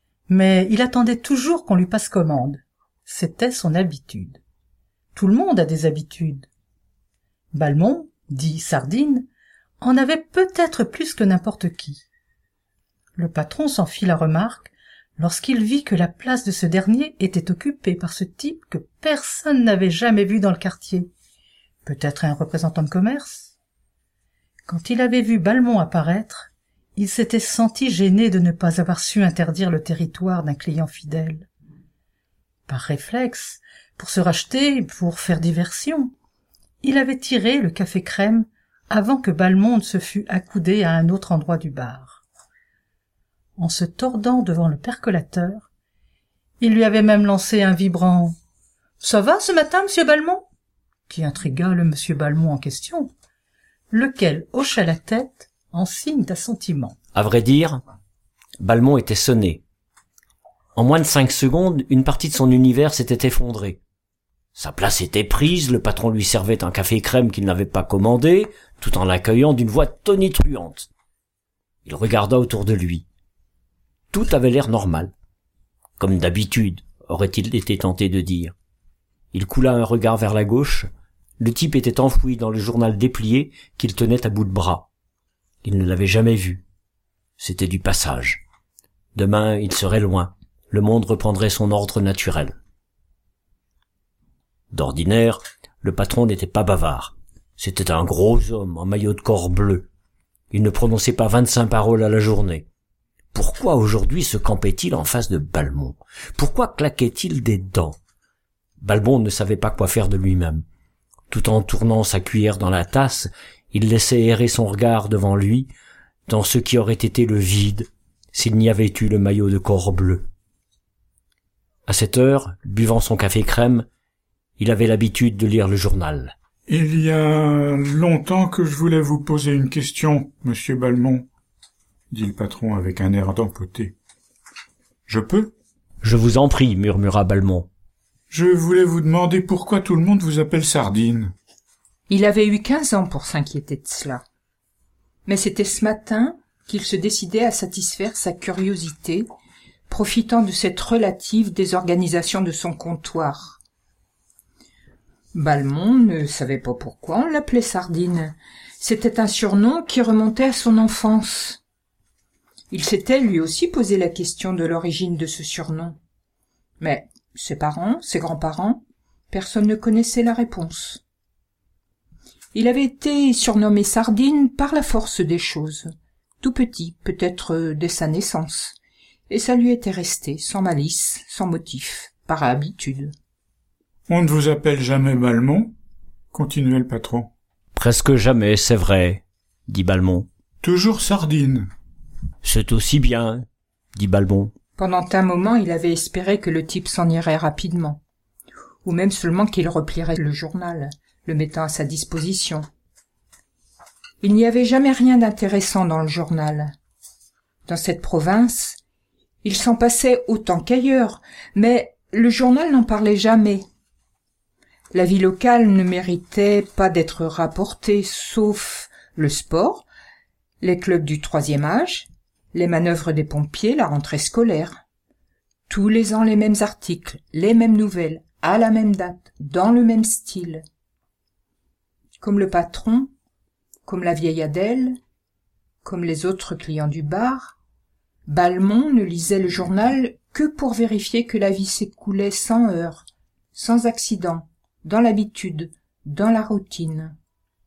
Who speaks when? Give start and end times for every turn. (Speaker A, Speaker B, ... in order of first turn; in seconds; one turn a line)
Speaker A: 0.3-4.4
Speaker A: 5.1-6.5
Speaker A: 7.5-9.3
Speaker A: 9.8-12.0
Speaker A: 13.2-21.1
Speaker A: 21.8-23.5
Speaker A: 24.7-31.5
Speaker A: 32.7-36.1
Speaker A: 36.8-42.2
Speaker A: 43.6-45.7
Speaker A: 46.6-48.4
Speaker A: 49.0-50.5
Speaker A: 51.1-53.1
Speaker A: 53.9-57.0
Speaker B: 57.1-57.8
Speaker B: 58.6-59.6
Speaker B: 60.7-63.8
Speaker B: 64.5-70.9
Speaker B: 71.8-73.0
Speaker B: 74.1-75.1
Speaker B: 76.0-78.5
Speaker B: 79.3-84.9
Speaker B: 85.6-86.6
Speaker B: 87.4-88.4
Speaker B: 89.1-92.5
Speaker B: 94.7-99.9
Speaker B: 100.5-102.7
Speaker B: 103.3-108.0
Speaker B: 108.8-110.6
Speaker B: 111.3-115.7
Speaker B: 116.3-120.3
Speaker B: 121.9-123.9
Speaker B: 124.6-126.3
Speaker C: 126.7-131.3
Speaker C: 132.1-133.9
Speaker C: 135.1-135.5
Speaker B: 136.0-137.7
Speaker C: 138.3-141.3
Speaker D: 142.1-144.2
Speaker D: 145.2-149.3
Speaker D: 149.9-153.6
Speaker D: 155.3-161.6
Speaker D: 162.7-166.0
Speaker D: 166.8-171.0
Speaker D: 172.5-178.8
Speaker D: 179.3-183.1
Speaker C: 184.1-185.7
Speaker C: 186.3-187.3
Speaker B: 187.7-190.3
Speaker C: 190.6-191.7
Speaker B: 192.4-194.5
Speaker D: 194.8-198.0
Speaker D: 198.8-202.7
Speaker D: 204.2-206.7
Speaker D: 207.7-208.8
Speaker D: 209.4-213.6
Speaker D: 214.9-219.8
Speaker D: 220.6-224.8
Speaker D: 225.7-230.6
Speaker D: 232.2-233.1
Speaker D: 233.9-235.0
Speaker D: 235.8-237.6
Speaker D: 238.3-247.2